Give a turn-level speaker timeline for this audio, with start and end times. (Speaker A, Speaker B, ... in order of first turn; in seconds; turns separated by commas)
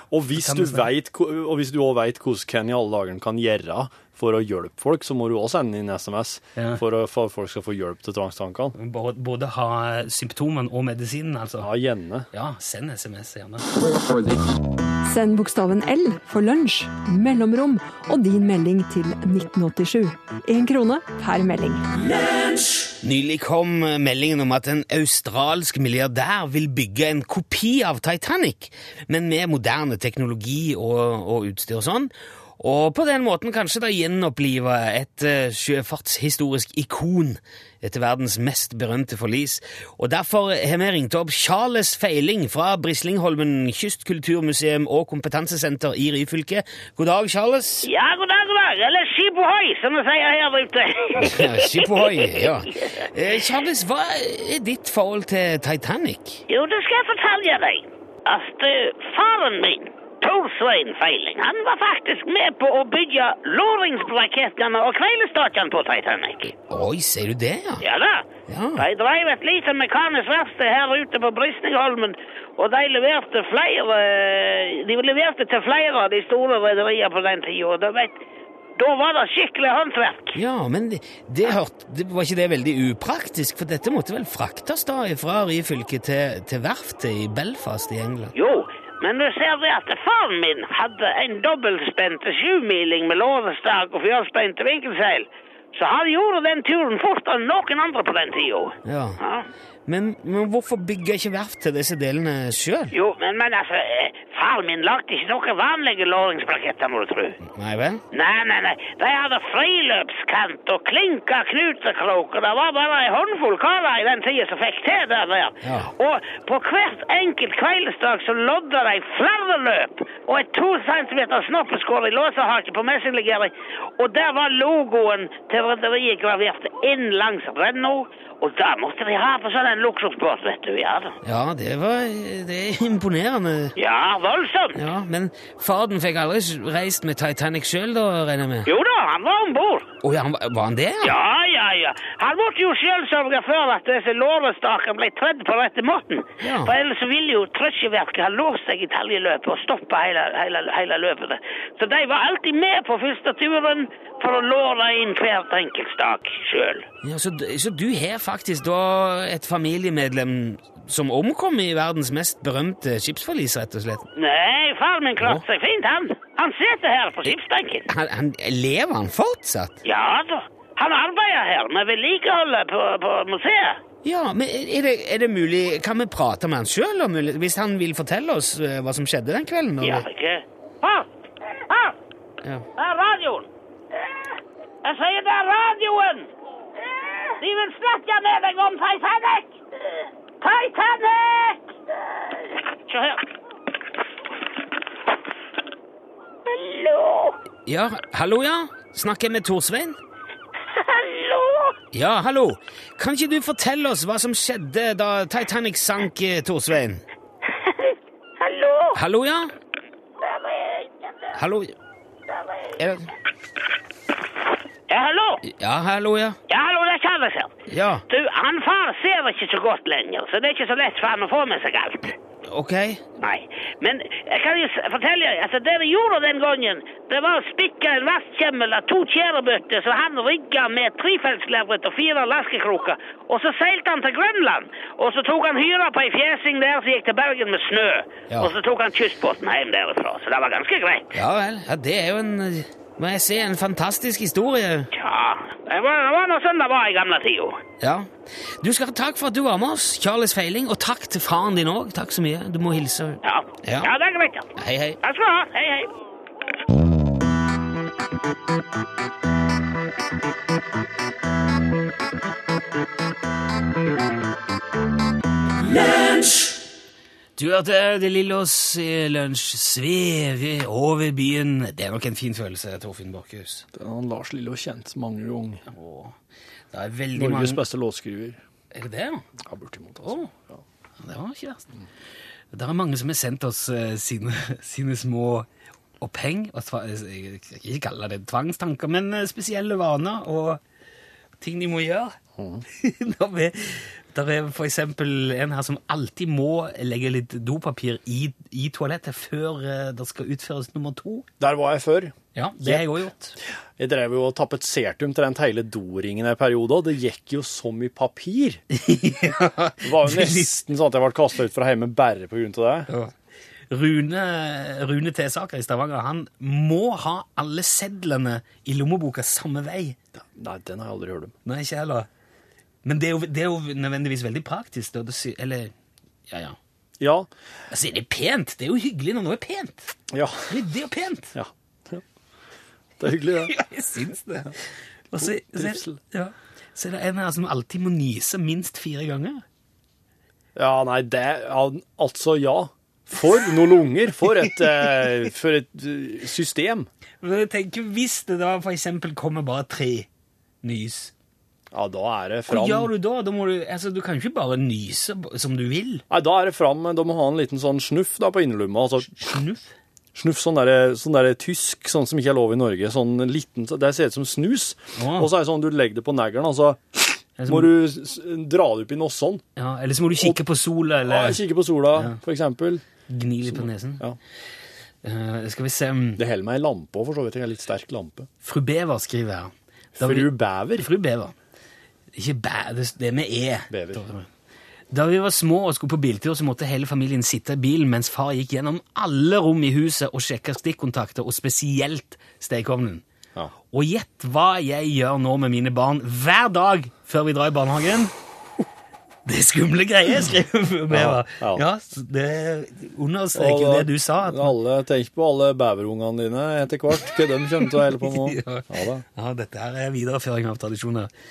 Speaker A: 0.1-8.8, Speaker B: 0.3-0.9, Speaker B: 6.6-6.8, Speaker B: 8.8-11.7, Speaker A: 11.6-12.3, Speaker B: 12.3-13.7, Speaker C: 15.1-22.0, Speaker B: 23.0-47.9, Speaker D: 47.8-53.1, Speaker B: 51.2-56.4, Speaker D: 56.5-66.5, Speaker B: 66.7-67.8, Speaker D: 67.8-78.2, Speaker B: 68.5-68.8, Speaker D: 78.8-80.4, Speaker B: 80.3-88.3, Speaker D: 88.3-99.5, Speaker B: 98.8-99.2, Speaker B: 99.9-103.0, Speaker D: 102.9-107.4, Speaker B: 107.5-108.0, Speaker D: 108.1-131.2, Speaker B: 115.6-115.9, Speaker B: 131.2-133.8, Speaker D: 133.8-134.8, Speaker B: 134.8-138.7, Speaker D: 138.7-139.9, Speaker B: 140.0-141.2, Speaker D: 141.0-156.9, Speaker B: 146.4-146.8, Speaker B: 157.0-164.1, Speaker D: 164.2-167.9, Speaker B: 167.9-169.8, Speaker D: 169.8-173.8, Speaker B: 174.0-180.1, Speaker D: 179.8-181.9, Speaker D: 182.8-183.5, Speaker D: 184.8-186.3, Speaker D: 187.3-191.7, Speaker D: 192.2-193.2, Speaker D: 196.5-197.4, Speaker B: 197.7-200.0, Speaker D: 200.7-201.8, Speaker B: 201.9-207.0, Speaker D: 207.7-209.0, Speaker B: 208.9-209.5, Speaker D: 210.2-210.9, Speaker B: 211.3-211.7, Speaker B: 212.8-213.1, Speaker D: 214.9-215.4, Speaker B: 215.4-216.4, Speaker D: 216.5-217.6, Speaker B: 217.7-218.0, Speaker D: 218.1-222.1, Speaker B: 222.4-223.0, Speaker D: 223.2-241.1, Speaker B: 241.1-244.9, Speaker D: 244.9-247.6, Speaker B: 247.8-253.9, Speaker D: 253.2-254.5, Speaker B: 254.6-255.0, Speaker D: 255.0-255.9, Speaker B: 267.4-273.7, Speaker A: 273.7-275.6, Speaker B: 275.7-276.1, Speaker B: 276.7-277.6, Speaker A: 277.1-278.4, Speaker B: 278.7-279.2, Speaker A: 279.5-280.6, Speaker B: 280.0-280.3, Speaker B: 281.0-281.6, Speaker B: 282.5-285.5, Speaker B: 286.0-290.6, Speaker B: 291.4-292.2, Speaker A: 292.4-292.6, Speaker B: 292.7-301.3, Speaker A: 301.4-302.8, Speaker B: 302.4-303.4, Speaker A: 303.8-308.6, Speaker B: 308.7-310.5, Speaker A: 309.8-312.9, Speaker B: 312.9-313.1, Speaker B: 313.7-320.0, Speaker A: 320.2-321.3, Speaker B: 321.5-322.1, Speaker B: 322.8-325.7, Speaker B: 326.3-326.6, Speaker A: 327.0-327.3, Speaker B: 327.7-329.9, Speaker A: 330.1-330.5, Speaker B: 330.5-331.4, Speaker A: 331.4-332.0, Speaker A: 333.0-333.5, Speaker B: 333.4-339.4, Speaker A: 335.2-336.0, Speaker A: 340.6-346.9, Speaker B: 347.2-350.1, Speaker B: 350.6-351.1, Speaker A: 351.7-352.9, Speaker B: 352.5-356.0, Speaker A: 356.1-359.3, Speaker B: 359.1-359.6, Speaker A: 360.1-369.4, Speaker B: 365.0-365.3, Speaker B: 367.4-367.7, Speaker B: 369.6-371.4, Speaker A: 371.1-372.8, Speaker B: 373.1-374.0, Speaker A: 373.5-374.2, Speaker B: 375.0-376.2, Speaker A: 376.2-378.3, Speaker B: 378.4-381.3, Speaker A: 380.0-380.9, Speaker B: 382.1-384.3, Speaker A: 383.7-384.0, Speaker B: 384.9-393.0, Speaker B: 393.7-398.1, Speaker B: 399.3-404.6, Speaker A: 400.9-401.6, Speaker A: 403.3-409.0, Speaker B: 408.0-411.1